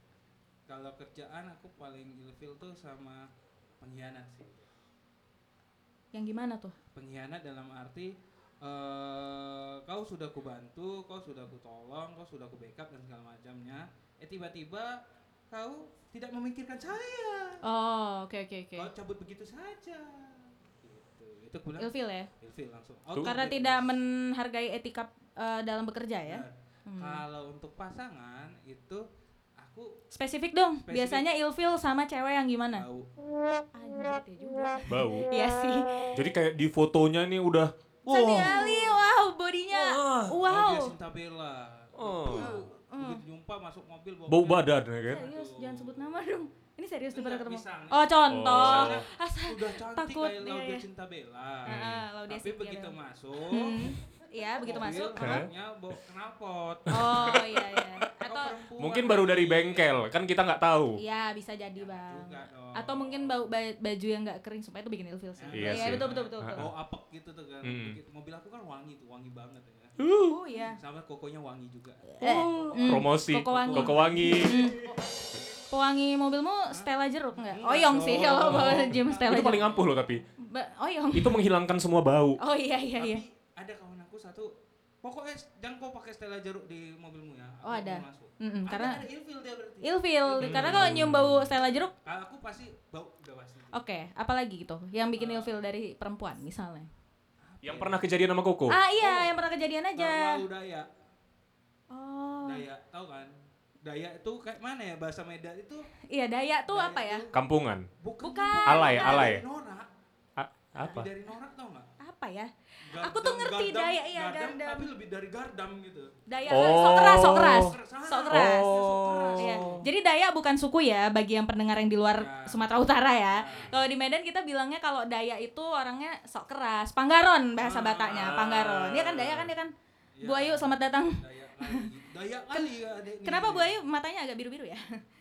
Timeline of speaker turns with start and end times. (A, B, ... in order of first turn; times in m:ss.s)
0:00.7-0:04.7 A
0:06.1-0:06.8 B
0:06.9-0:17.6 A
0:17.6-0:18.9 B
0:18.8-0:24.0 A
0:21.8-0:22.3 B
0:23.2-0:27.2 B
0:26.3-0:29.0 A
0:29.6-0:30.0 A
0:30.1-0:32.8 B
0:30.8-0:31.3 A
0:32.7-0:33.1 A
0:33.7-0:36.1 B
0:34.9-0:35.3 C
0:36.1-0:38.7 C
0:38.1-0:40.9 B
0:38.1-0:39.0 A
0:39.7-0:40.4 C
0:40.4-0:46.3 A
0:42.0-0:42.5 C
0:42.3-0:43.2 B
0:44.3-0:45.2 C
0:45.1-0:50.8 B
0:47.1-0:54.0 A
0:48.3-0:49.0 C
0:51.6-0:52.0 C
0:51.6-0:52.9 B
0:53.5-0:55.5 B
0:54.6-0:57.5 A
0:55.2-0:55.5 C
0:56.9-0:57.4 C
0:56.9-0:58.5 B
0:58.2-1:00.1 A
0:58.8-1:01.0 C
1:01.0-1:06.6 B
1:01.8-1:03.6 A
1:05.4-1:10.0 A
1:05.5-1:06.7 C
1:07.6-1:08.0 C
1:10.0-1:10.4 C
1:10.3-1:10.8 B
1:10.6-1:14.9 A
1:12.1-1:14.9 B
1:12.2-1:14.8 C
1:15.7-1:19.6 B
1:16.7-1:20.1 A
1:18.5-1:20.2 C
1:20.4-1:21.4 B
1:21.1-1:22.4 C
1:22.4-1:23.2 B
1:23.0-1:33.8 A
1:27.6-1:29.0 B
1:29.8-1:31.9 B
1:30.4-1:31.5 C
1:33.7-1:36.9 B
1:35.1-1:35.6 A
1:37.4-1:38.0 A
1:37.6-1:38.8 C
1:38.7-1:40.4 B
1:39.0-1:39.4 A
1:40.0-1:40.9 A
1:41.9-1:42.6 B
1:42.4-1:45.9 A
1:46.1-1:47.2 B
1:46.7-1:47.4 A
1:47.3-1:47.9 C
1:48.0-1:49.9 A
1:48.2-1:49.4 B
1:48.6-1:49.4 C
1:50.4-1:51.1 C
1:50.8-1:51.9 A
1:52.0-1:54.9 B
1:52.8-1:59.9 A
1:56.3-1:58.7 B
1:56.5-1:57.8 C
1:58.3-1:59.8 C
1:59.4-2:11.9 B
2:02.1-2:03.8 A
2:07.6-2:09.3 A
2:09.1-2:09.3 C
2:10.1-2:13.8 A
2:13.2-2:15.0 B